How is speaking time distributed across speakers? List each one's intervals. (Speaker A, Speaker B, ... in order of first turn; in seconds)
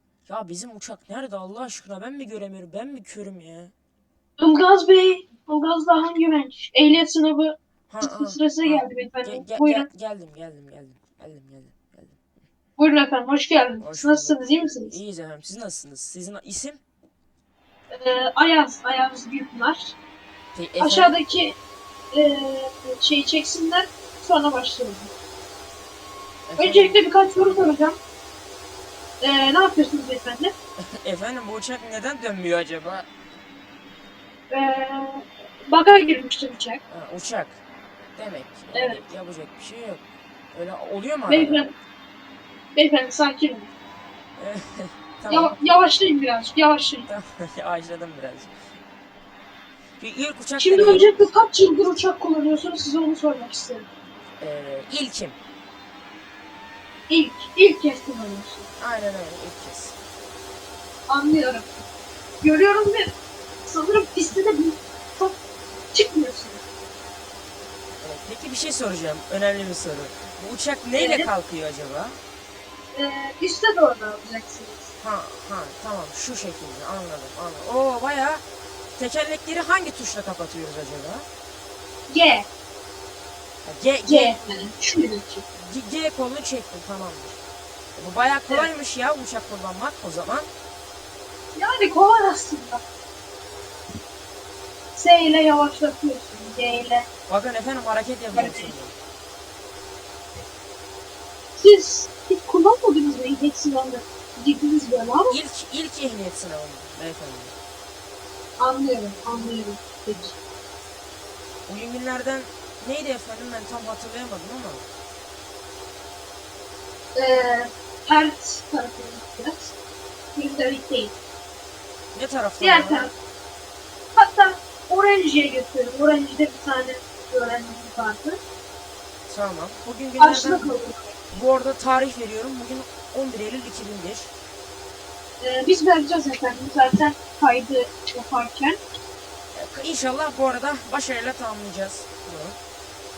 Speaker A: 0.2-3.7, 7.9-12.2, 13.8-16.8, 20.5-21.1, 26.5-27.0, 30.9-33.1, 36.9-37.6, 38.1-41.6, 44.4-45.5, 47.1-48.5, 50.0-51.1, 54.4-55.4, 58.8-59.9, 68.0-72.2, 75.0-81.3, 83.6-84.7, 85.5-87.4, 88.0-90.5, 97.3-98.9, 105.3-107.5, 111.7-114.8, 122.1-123.1, 129.3-130.7, 131.3-134.3, 139.5-142.6
Speaker B: 4.4-9.9, 12.8-14.9, 17.9-19.9, 20.8-21.6, 22.1-25.1, 26.6-28.0, 29.2-30.5, 34.5-36.8, 38.7-39.0, 41.3-41.7, 42.7-43.7, 45.3-47.1, 50.6-53.9, 57.1-58.6, 61.1-61.7, 62.4-65.3, 65.9-66.6, 70.9-71.3, 72.9-74.9, 82.1-82.5, 84.1-85.4, 91.5-92.8, 94.9-97.0, 98.3-98.7, 101.5-105.3, 108.6-110.3, 117.1-119.7, 120.3-121.1, 122.6-123.1, 124.2-128.4, 130.2-131.1, 135.4-138.8